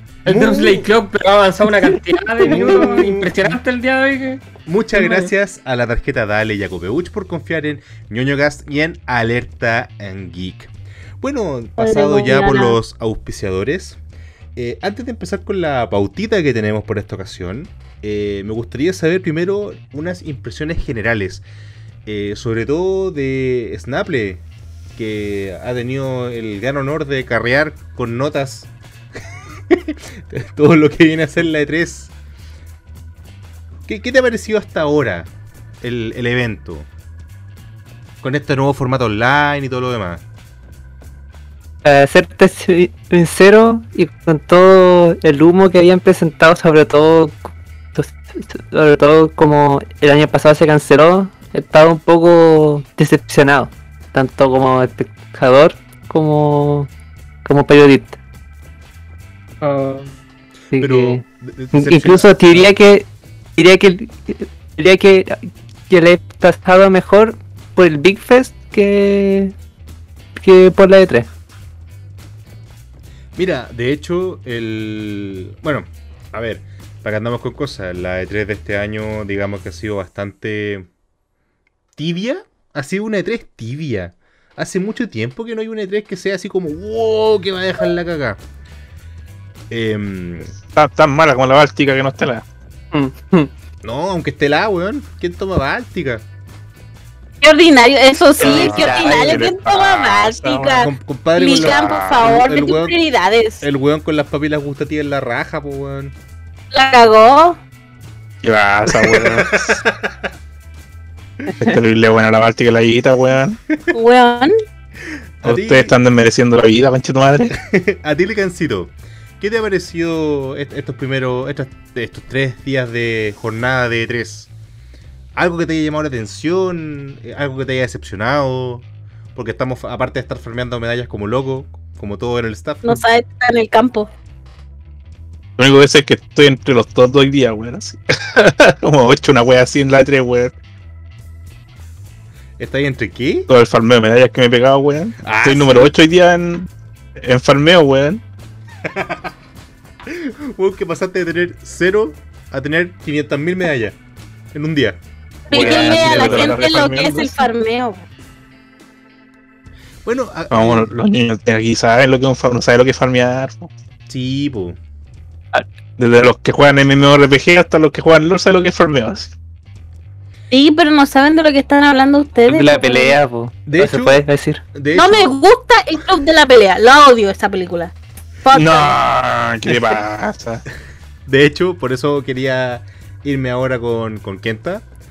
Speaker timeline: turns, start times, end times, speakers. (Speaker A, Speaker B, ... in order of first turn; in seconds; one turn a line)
Speaker A: 0.2-0.8
Speaker B: 0.2-5.3
Speaker A: 2.4-3.3
Speaker A: 4.6-14.0
Speaker C: 11.8-12.8
Speaker A: 14.6-21.4
Speaker A: 22.1-24.4
Speaker A: 24.9-28.7
Speaker A: 29.7-32.1
Speaker A: 33.9-36.9
Speaker A: 38.2-40.2
Speaker D: 41.8-56.9
Speaker D: 57.4-58.2
Speaker B: 59.6-60.1
Speaker D: 60.7-69.5
Speaker A: 60.8-62.7
Speaker D: 70.3-71.3
Speaker A: 73.3-80.9
Speaker A: 82.0-88.4
Speaker A: 89.7-90.5
Speaker E: 90.7-92.5
Speaker D: 92.9-93.5
Speaker A: 93.8-96.2
Speaker C: 97.4-103.6
Speaker D: 98.4-99.4
Speaker A: 98.4-103.0
Speaker E: 98.5-100.7
Speaker E: 101.5-102.4
Speaker A: 103.6-106.1
Speaker C: 106.7-107.6
Speaker E: 108.4-109.8
Speaker A: 109.2-110.0
Speaker E: 111.6-113.6
Speaker C: 113.9-114.5
Speaker A: 115.4-115.9
Speaker E: 115.4-117.5
Speaker A: 117.5-124.5
Speaker A: 125.3-133.0
Speaker C: 132.8-134.1
Speaker E: 135.6-140.5
Speaker A: 142.6-143.5
Speaker E: 143.5-148.2
Speaker A: 145.2-145.9
Speaker A: 148.8-149.3
Speaker A: 150.1-154.0
Speaker A: 154.5-156.7
Speaker C: 155.5-158.0
Speaker E: 155.5-157.4
Speaker A: 160.0-160.9
Speaker E: 160.5-163.7
Speaker A: 164.1-164.8
Speaker E: 166.0-169.3
Speaker C: 170.5-173.2
Speaker D: 172.5-174.6
Speaker A: 173.7-174.2
Speaker A: 174.7-175.3
Speaker C: 174.9-177.9
Speaker C: 178.4-179.0
Speaker E: 178.5-180.6
Speaker A: 181.2-184.8